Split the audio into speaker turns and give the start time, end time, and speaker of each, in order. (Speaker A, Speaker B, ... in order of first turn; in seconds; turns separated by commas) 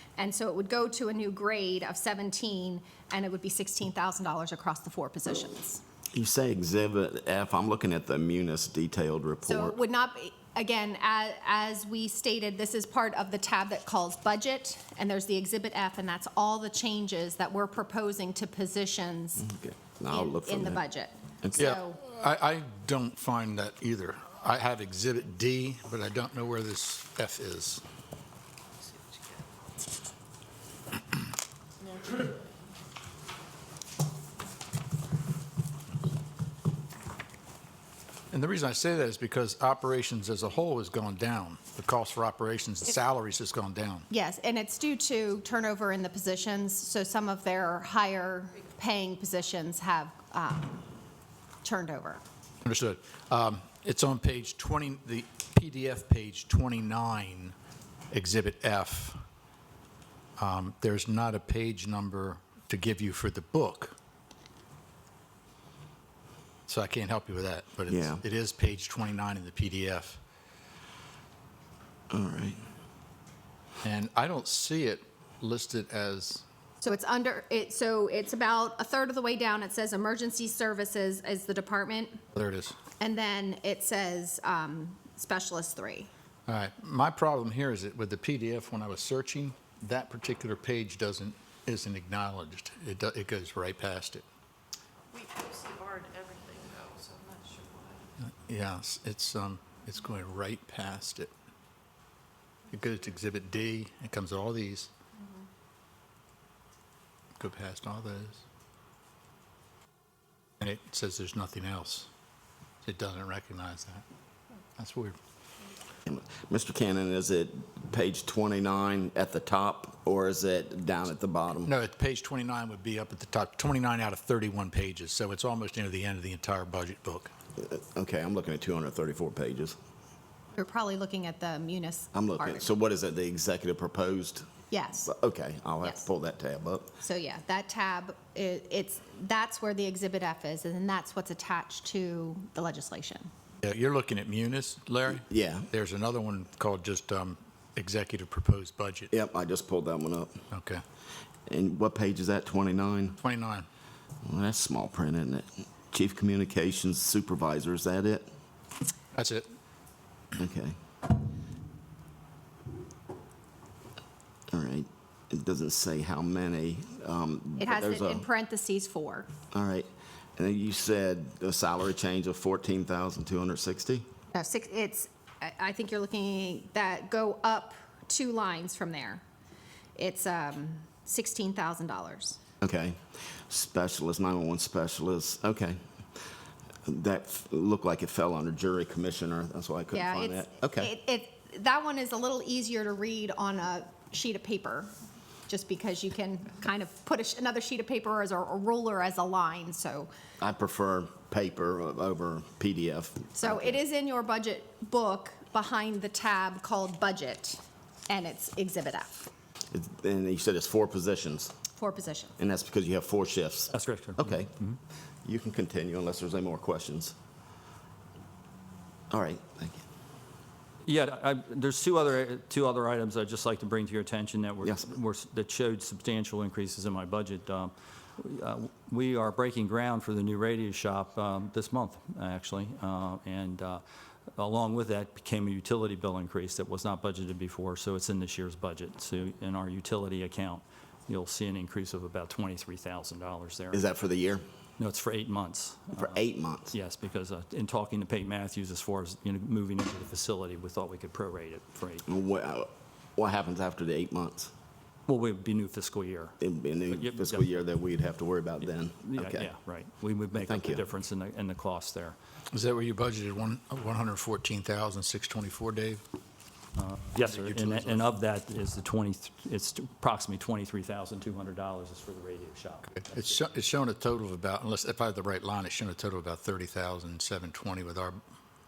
Speaker A: 0.2-5.8, Speaker B: 6.1-9.8, Speaker A: 9.4-19.5, Speaker B: 19.4-20.8, Speaker A: 20.1-22.0, Speaker C: 21.6-27.8, Speaker C: 38.3-44.1, Speaker A: 44.1-50.9, Speaker A: 51.6-52.2, Speaker C: 52.6-57.5, Speaker C: 58.1-59.2, Speaker C: 60.4-64.0, Speaker C: 66.7-70.2, Speaker B: 67.9-68.2, Speaker B: 72.1-72.6, Speaker C: 73.8-76.4, Speaker A: 76.8-82.2, Speaker C: 82.3-82.8, Speaker A: 83.0-86.1, Speaker C: 86.5-94.2, Speaker D: 95.1-98.0, Speaker C: 98.2-101.3, Speaker C: 102.7-104.9, Speaker C: 107.4-108.4, Speaker C: 110.6-112.1, Speaker C: 112.8-114.0, Speaker C: 114.8-115.2, Speaker B: 116.1-121.7, Speaker C: 121.7-127.3, Speaker B: 127.6-129.8, Speaker A: 130.5-132.7, Speaker B: 132.1-134.5, Speaker A: 134.7-135.1, Speaker B: 135.1-136.9, Speaker A: 137.0-143.3, Speaker C: 143.6-149.1, Speaker B: 145.1-145.7, Speaker B: 149.1-150.4, Speaker C: 150.5-150.8, Speaker B: 151.5-153.2, Speaker C: 153.2-153.7, Speaker B: 154.2-158.3, Speaker C: 159.1-159.5, Speaker B: 160.4-160.7, Speaker B: 164.5-168.2, Speaker A: 167.6-169.3, Speaker B: 169.5-174.0, Speaker A: 174.3-179.2, Speaker A: 179.9-182.4, Speaker B: 182.6-185.8, Speaker B: 186.8-190.9, Speaker A: 189.9-194.9, Speaker A: 195.5-200.1, Speaker B: 200.4-203.8, Speaker A: 203.3-209.2, Speaker B: 209.7-211.5, Speaker A: 211.8-212.4, Speaker B: 212.4-214.5, Speaker E: 213.7-214.8, Speaker B: 215.2-217.1, Speaker B: 219.1-219.8, Speaker E: 220.8-233.8, Speaker B: 224.6-224.9, Speaker E: 234.3-243.8, Speaker B: 243.7-244.4, Speaker E: 244.8-246.2, Speaker B: 245.9-246.7, Speaker E: 246.7-252.0, Speaker B: 252.1-254.5, Speaker E: 255.1-256.4, Speaker B: 256.4-259.5, Speaker E: 256.9-257.6, Speaker E: 259.0-262.1, Speaker B: 260.3-260.8, Speaker C: 262.5-266.0, Speaker E: 266.8-273.5, Speaker C: 267.2-268.0, Speaker C: 273.0-278.2